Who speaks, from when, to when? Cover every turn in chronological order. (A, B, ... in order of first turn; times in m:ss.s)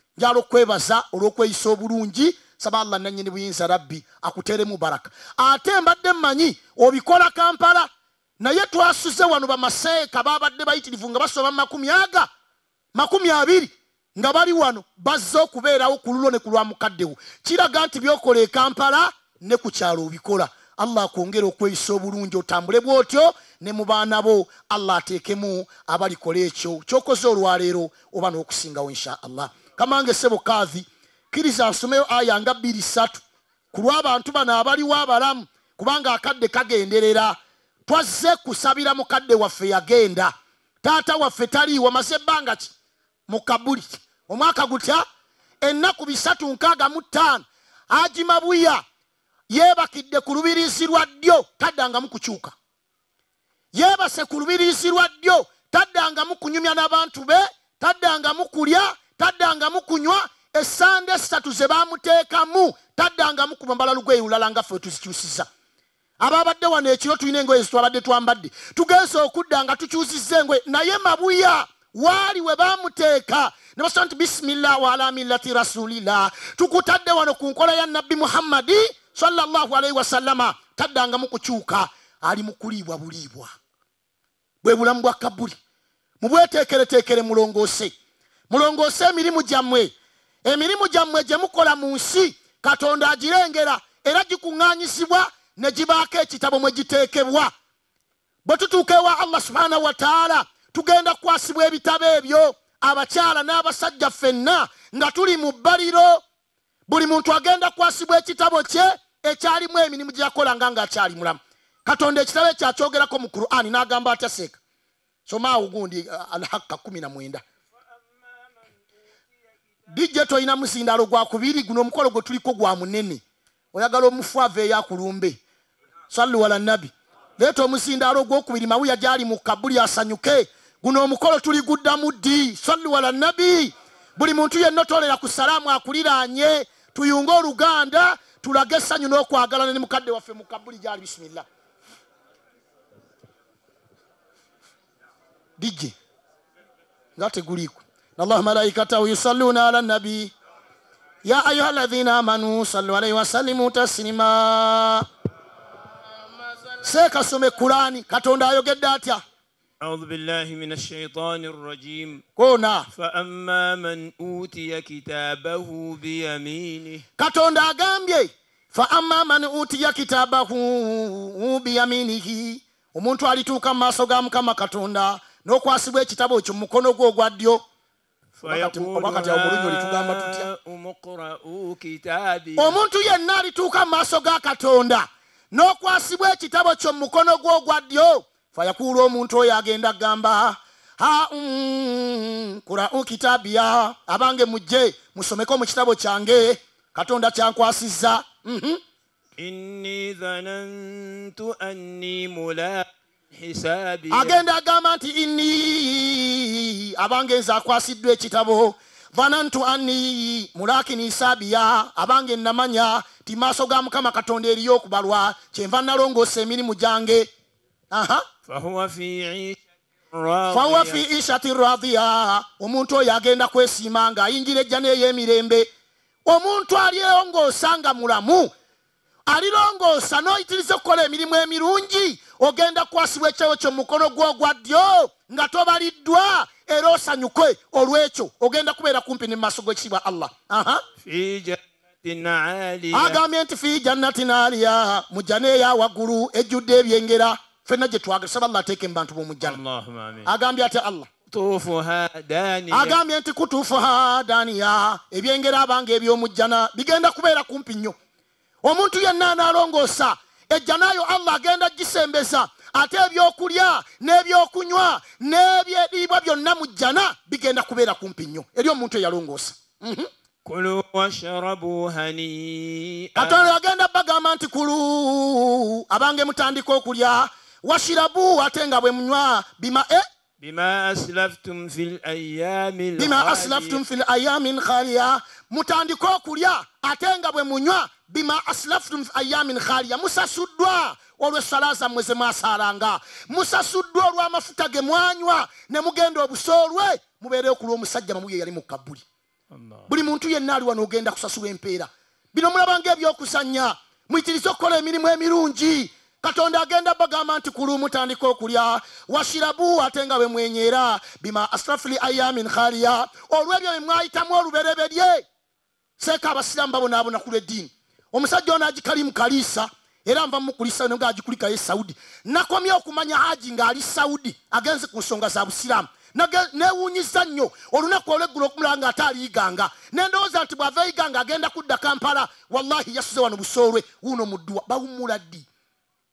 0:00.2-0:12.3 A
0:12.9-0:33.2 A
0:33.7-0:42.7 A
0:43.3-0:45.0 A
0:45.6-0:48.8 A
0:49.5-0:52.5 A
0:53.7-1:05.5 A
1:06.2-1:23.5 A
1:24.6-1:25.6 A
1:26.2-1:27.9 A
1:28.5-1:29.9 A
1:30.4-1:37.5 A
1:38.4-1:46.2 A
1:46.9-1:54.6 A
1:55.2-1:57.4 A
1:59.9-2:03.2 A
2:03.7-2:05.4 A
2:06.1-2:21.4 A
2:25.6-2:25.9 A
2:27.2-2:30.3 A
2:31.2-2:35.1 A
2:36.8-2:39.2 A
2:39.8-2:42.2 B
2:42.4-2:42.9 A
2:42.9-2:47.0 B
2:47.2-2:57.6 A
2:58.4-3:02.8 B
2:58.4-3:00.5 A
3:02.6-3:18.8 A
3:19.4-3:24.4 B
3:24.1-3:37.3 A
3:37.9-3:38.2 A
3:38.5-3:39.6 B
3:40.1-3:41.0 B
3:40.5-3:45.7 A
3:46.2-3:48.5 A
3:49.3-4:00.8 A
4:01.0-4:03.2 B
4:02.9-4:09.6 A
4:09.5-4:10.2 B
4:10.2-4:11.1 A
4:11.3-4:13.0 B
4:12.7-4:18.0 A
4:18.6-4:30.1 A
4:30.4-4:33.5 B
4:33.2-4:40.0 A
4:40.4-4:43.8 B
4:43.0-4:59.0 A
4:59.9-5:15.2 A
5:16.0-5:35.4 A